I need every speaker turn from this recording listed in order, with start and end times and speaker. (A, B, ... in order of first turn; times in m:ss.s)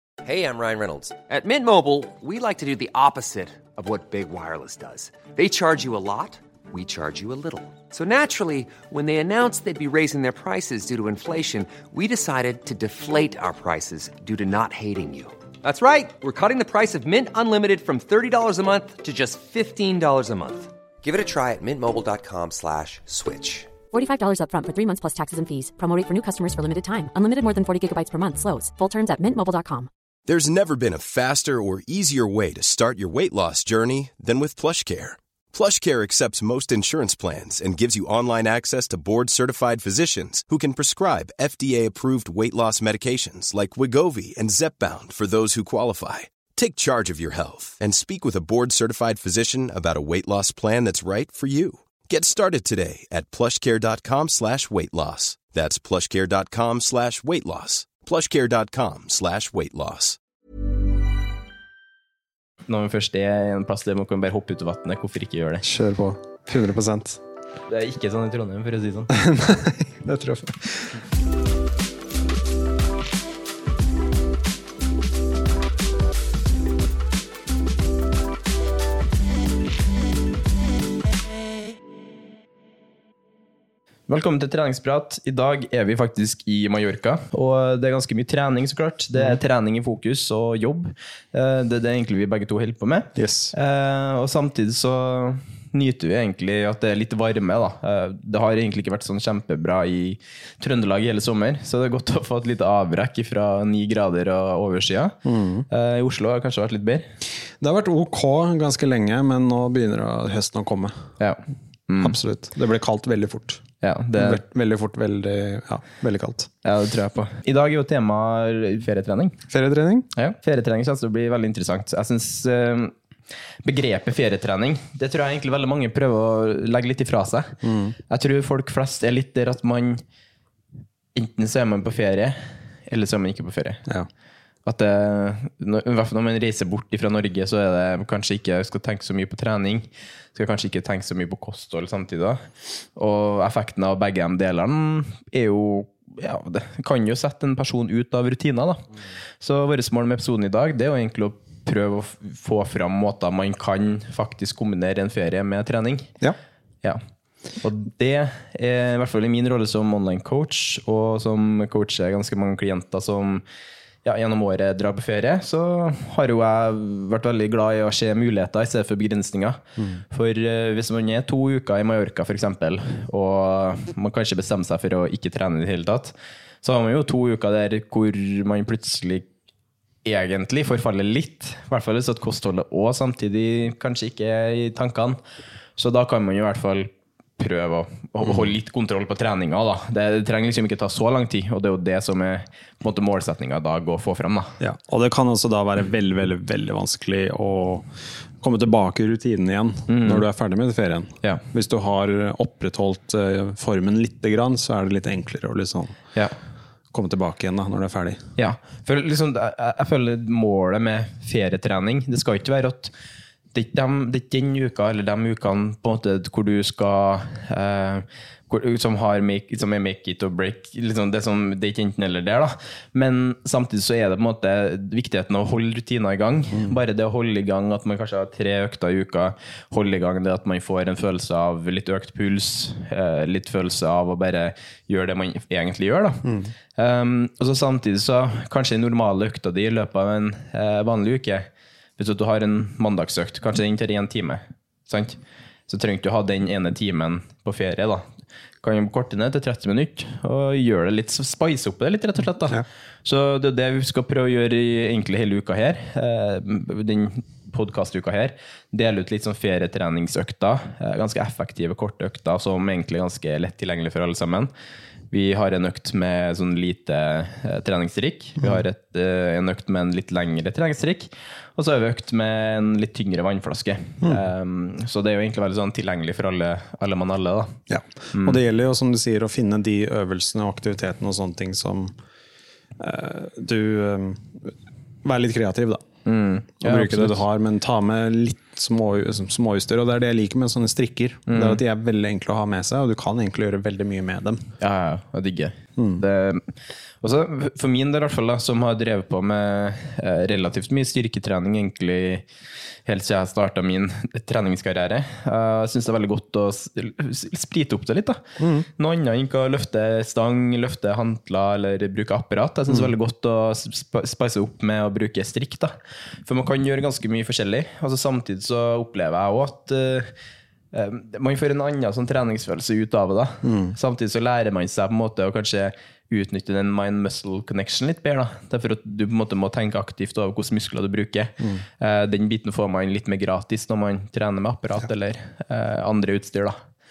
0:00.2-0:23.8 A
0:23.9-0:29.9 B
0:30.3-1:00.2 C
1:02.7-1:05.6 D
1:05.6-1:07.2 E
1:07.7-1:09.2 D
1:09.1-1:11.0 E
1:24.1-1:45.2 D
1:33.2-1:33.5 E
1:45.2-1:45.7 E
1:45.7-1:47.1 D
1:47.5-1:51.1 E
1:51.2-1:52.2 D
1:52.0-1:53.6 E
1:53.8-1:54.4 D
1:54.2-1:56.5 E
1:56.6-1:59.4 D
1:59.5-2:00.1 E
2:00.1-2:02.9 D
2:03.6-2:07.6 D
2:07.6-2:08.0 E
2:08.1-2:10.0 D
2:11.2-2:12.4 D
2:12.9-2:13.8 D
2:14.6-2:22.4 D
2:23.0-2:28.8 D
2:29.4-2:36.1 D
2:37.6-2:43.4 D
2:44.0-2:59.3 D
3:00.0-3:05.2 D
3:05.8-3:14.6 D
3:14.6-3:17.9 E
3:18.4-3:26.0 E
3:19.9-3:20.3 D
3:26.9-3:28.2 E
3:28.4-3:32.9 D
3:33.5-4:01.5 D
3:46.5-3:46.8 E
3:56.2-3:56.5 E
4:02.0-4:08.0 D
4:08.6-4:24.5 D
4:25.1-4:37.6 D
4:37.7-4:42.0 E
4:38.1-4:38.4 D
4:42.8-4:44.5 E
4:45.0-4:45.8 E
4:46.1-4:47.2 D
4:46.6-4:54.4 E
4:51.3-4:51.6 D
4:54.6-4:56.5 D
4:55.8-4:56.0 E
4:57.0-5:02.2 D
5:02.9-5:08.2 D
5:08.4-5:08.7 E
5:08.8-5:15.7 D
5:16.2-5:20.1 D
5:20.7-5:36.6 D
5:23.4-5:23.8 E